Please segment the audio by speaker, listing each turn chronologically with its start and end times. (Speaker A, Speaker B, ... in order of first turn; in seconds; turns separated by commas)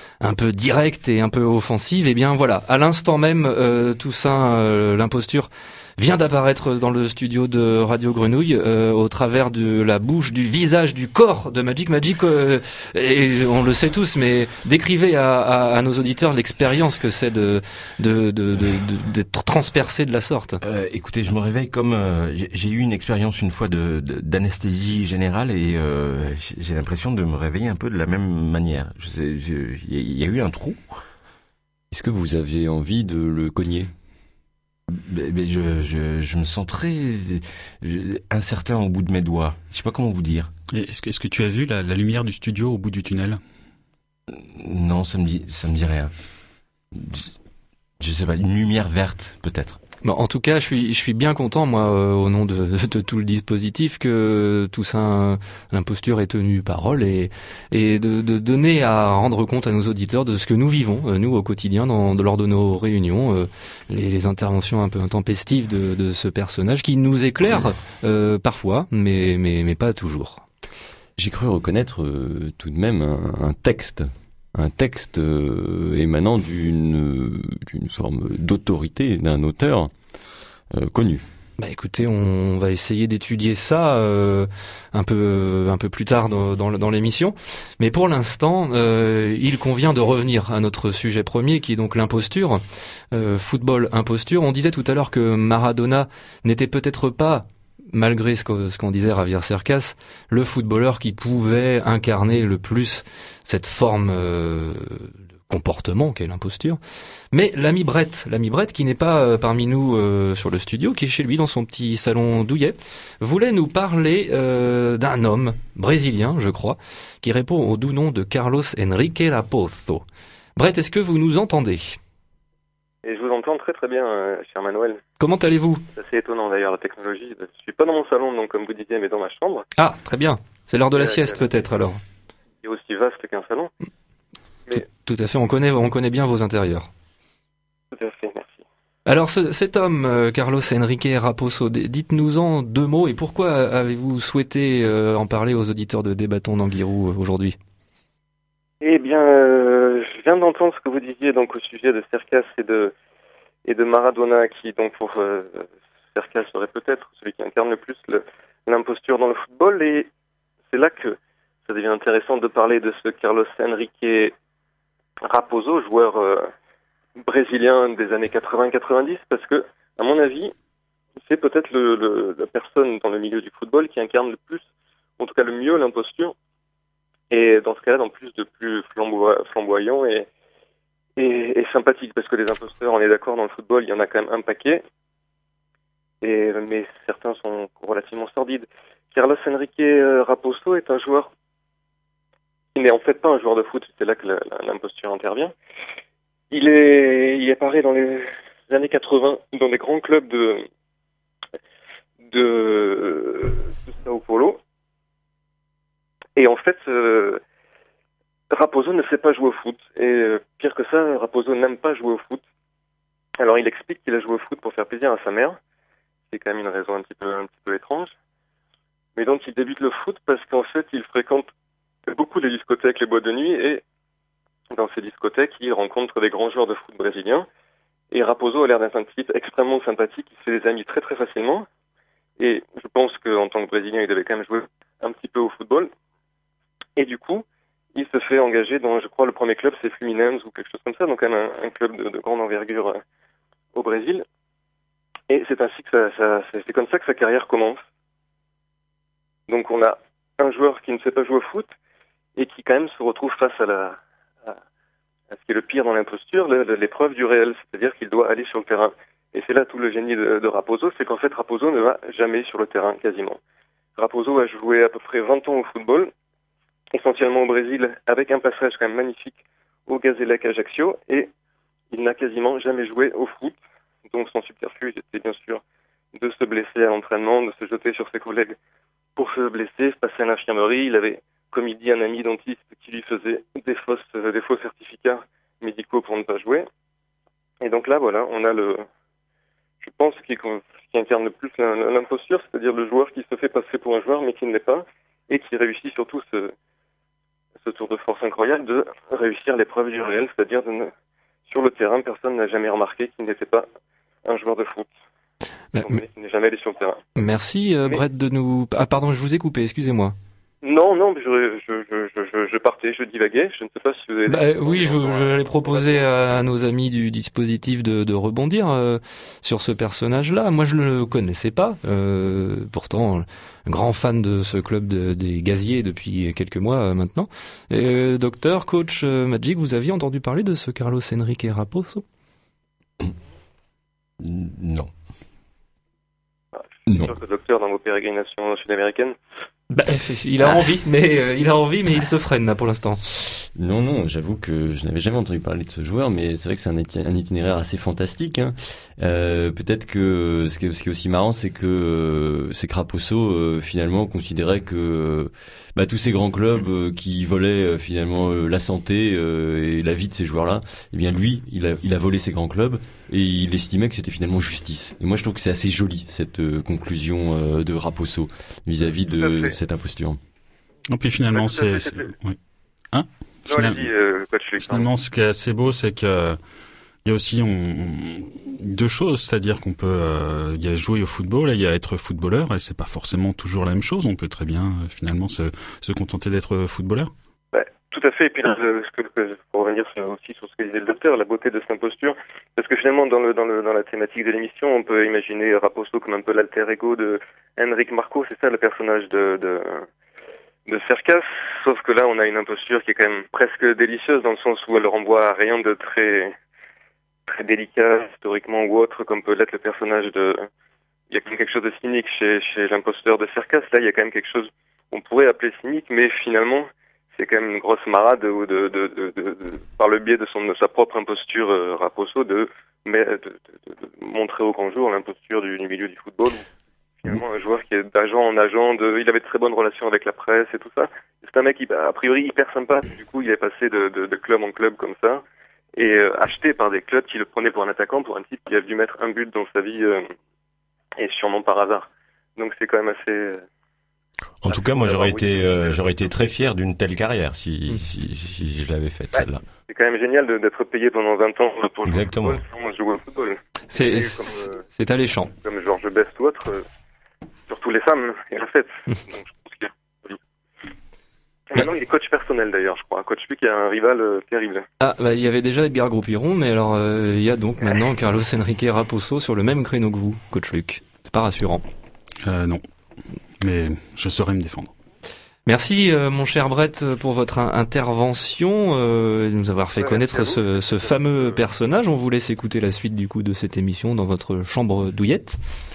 Speaker A: 0.2-20.6, Speaker B: 20.6-30.8, Speaker C: 31.9-33.9, Speaker B: 34.9-40.5, Speaker D: 40.7-43.4, Speaker B: 44.3-46.1, Speaker B: 46.9-47.3, Speaker B: 48.0-49.8, Speaker A: 50.0-70.4, Speaker C: 71.2-79.9, Speaker C: 80.7-81.2, Speaker A: 81.6-106.8, Speaker A: 107.3-120.0, Speaker A: 120.5-122.0, Speaker E: 123.0-125.0, Speaker A: 125.2-125.8, Speaker E: 126.0-129.6, Speaker A: 129.8-132.0, Speaker E: 130.9-131.4, Speaker E: 132.6-133.7, Speaker A: 134.7-136.9, Speaker E: 137.9-138.6, Speaker A: 139.1-147.6, Speaker E: 148.8-152.9, Speaker E: 153.6-160.1, Speaker E: 160.7-164.3, Speaker E: 165.2-166.5, Speaker E: 167.2-170.5, Speaker E: 171.2-174.6, Speaker E: 175.2-176.3, Speaker E: 177.3-180.3, Speaker E: 181.2-184.8, Speaker E: 186.2-191.3, Speaker E: 192.8-195.5, Speaker E: 196.5-200.7, Speaker E: 202.3-204.6, Speaker E: 206.4-207.4, Speaker E: 208.5-212.4, Speaker E: 213.4-215.6, Speaker E: 216.3-218.1, Speaker E: 219.2-221.5, Speaker E: 222.1-223.8, Speaker E: 224.7-227.5, Speaker E: 228.1-231.7, Speaker E: 232.4-235.9, Speaker E: 237.0-243.0, Speaker E: 243.7-244.2, Speaker E: 245.3-247.8, Speaker E: 249.5-251.7, Speaker E: 252.4-254.5, Speaker E: 255.3-263.4, Speaker E: 264.0-266.1, Speaker E: 266.9-271.3, Speaker E: 271.9-275.6, Speaker E: 276.1-278.6, Speaker E: 279.1-286.7, Speaker E: 287.6-288.8, Speaker E: 289.8-296.5, Speaker E: 297.6-300.9, Speaker E: 301.5-303.7, Speaker E: 304.2-304.9, Speaker A: 305.7-306.0, Speaker E: 305.8-307.0, Speaker A: 307.2-310.1, Speaker E: 310.6-316.0, Speaker A: 314.3-332.0, Speaker B: 334.2-334.9, Speaker E: 336.6-339.1, Speaker C: 336.9-337.1, Speaker A: 339.7-343.0, Speaker C: 343.4-370.2, Speaker E: 369.1-369.5, Speaker D: 370.9-372.4, Speaker E: 371.3-372.1, Speaker D: 372.9-373.9, Speaker E: 373.5-374.9, Speaker D: 374.6-376.4, Speaker D: 377.0-387.1, Speaker E: 387.5-399.9, Speaker E: 400.7-406.3, Speaker E: 407.3-410.5, Speaker E: 411.1-426.4, Speaker E: 427.0-435.2, Speaker E: 435.8-440.1, Speaker E: 441.0-443.4, Speaker B: 444.4-449.4, Speaker E: 444.5-445.3, Speaker E: 449.7-454.6, Speaker B: 451.9-452.4, Speaker A: 453.7-455.3, Speaker E: 455.4-456.6, Speaker E: 457.5-460.2, Speaker E: 461.5-464.6, Speaker A: 464.8-471.6, Speaker D: 472.2-472.6, Speaker D: 473.4-474.7, Speaker A: 475.4-485.4, Speaker E: 479.8-480.4